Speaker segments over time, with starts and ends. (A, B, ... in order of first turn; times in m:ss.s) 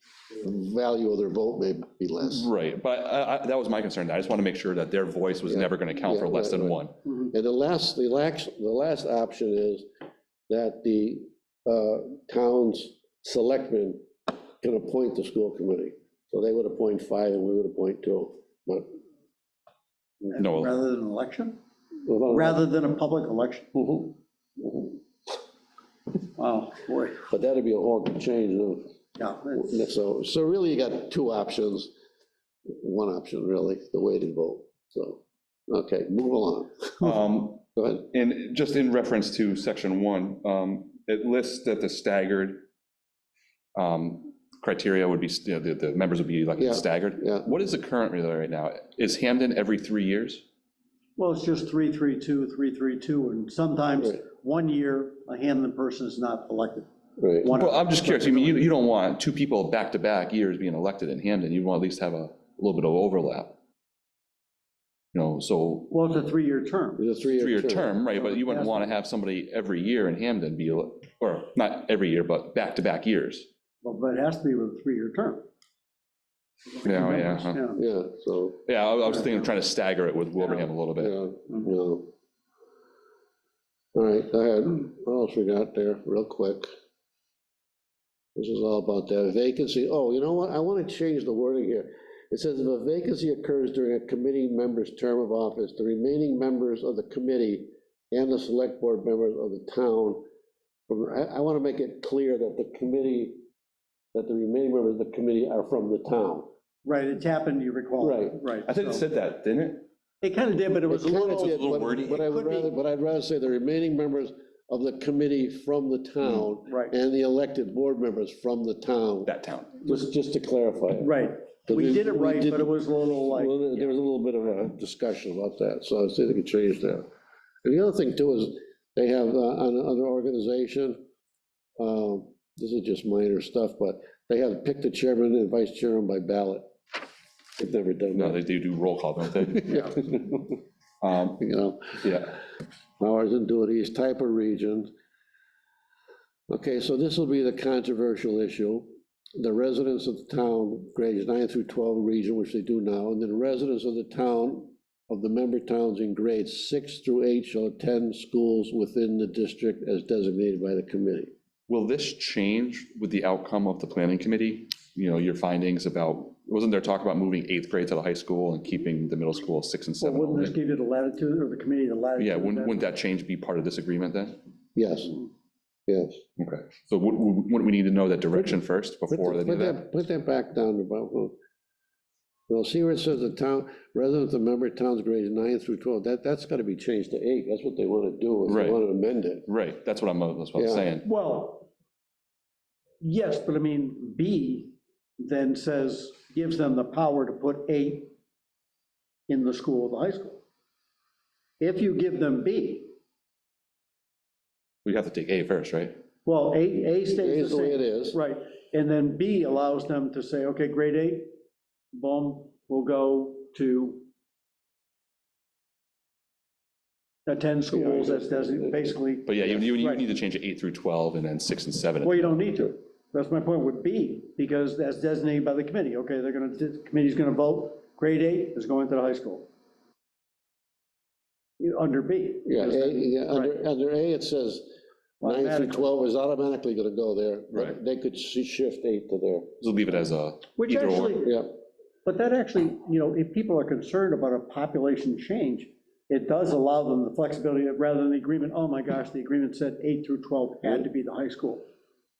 0:00.4-0:02.5 A
0:02.2-0:06.9 B
0:05.4-0:09.8 A
0:10.5-0:14.0 A
0:14.6-0:18.9 A
0:20.3-0:21.6 C
0:20.4-0:20.7 B
0:22.0-0:22.6 A
0:22.3-0:23.7 C
0:23.7-0:24.9 A
0:26.4-0:27.2 C
0:27.3-0:28.9 A
0:29.2-0:29.7 C
0:29.5-0:31.9 A
0:32.7-0:37.2 A
0:37.0-0:42.6 B
0:37.7-0:38.0 A
0:43.7-0:50.4 B
0:46.6-0:47.5 A
0:51.2-0:58.6 C
0:57.2-0:57.5 A
0:57.5-1:03.6 B
1:05.1-1:05.9 B
1:05.9-1:07.0 C
1:07.0-1:07.9 A
1:07.4-1:13.5 B
1:08.2-1:08.8 C
1:13.8-1:15.4 C
1:16.8-1:17.7 B
1:16.9-1:17.8 C
1:17.7-1:18.6 A
1:18.7-1:21.1 B
1:21.0-1:22.1 A
1:23.9-1:26.7 A
1:28.4-1:40.2 A
1:40.9-1:43.4 A
1:44.1-1:46.5 A
1:46.8-1:49.0 C
1:48.0-1:48.4 A
1:48.6-1:49.9 B
1:50.2-1:52.7 C
1:50.9-2:01.1 A
1:51.3-1:52.2 B
1:56.2-1:56.5 B
1:56.7-1:56.9 C
1:59.2-1:59.8 B
2:01.0-2:03.9 C
2:01.7-2:07.1 A
2:07.6-2:11.0 A
2:11.8-2:16.7 A
2:17.6-2:18.4 A
2:18.1-2:20.1 B
2:19.5-2:20.5 A
2:21.0-2:21.4 B
2:21.4-2:22.4 A
2:22.0-2:22.3 B
2:23.0-2:24.9 A
2:26.5-2:41.3 A
2:41.7-2:50.5 B
2:50.0-2:52.8 C
2:52.2-2:54.4 B
2:54.8-2:55.2 A
2:55.9-2:56.2 A
2:56.4-2:59.8 B
2:59.1-3:01.4 A
3:02.5-3:09.5 A
3:08.5-3:08.8 B
3:09.5-3:11.0 B
3:10.6-3:10.9 A
3:11.0-3:11.7 C
3:13.0-3:18.1 C
3:19.3-3:20.4 C
3:21.6-3:22.9 C
3:24.8-3:25.9 B
3:26.2-3:31.3 C
3:27.1-3:28.2 A
3:31.9-3:34.0 C
3:37.3-3:40.0 C
3:37.7-3:39.0 A
3:39.3-3:42.4 B
3:42.0-3:49.5 C
3:51.6-3:53.6 C
3:52.4-3:54.7 A
3:55.2-3:55.9 C
3:55.2-3:59.5 A
3:57.5-3:57.8 B
3:59.6-4:01.2 B
4:00.6-4:01.4 C
4:01.2-4:01.5 A
4:02.0-4:11.6 C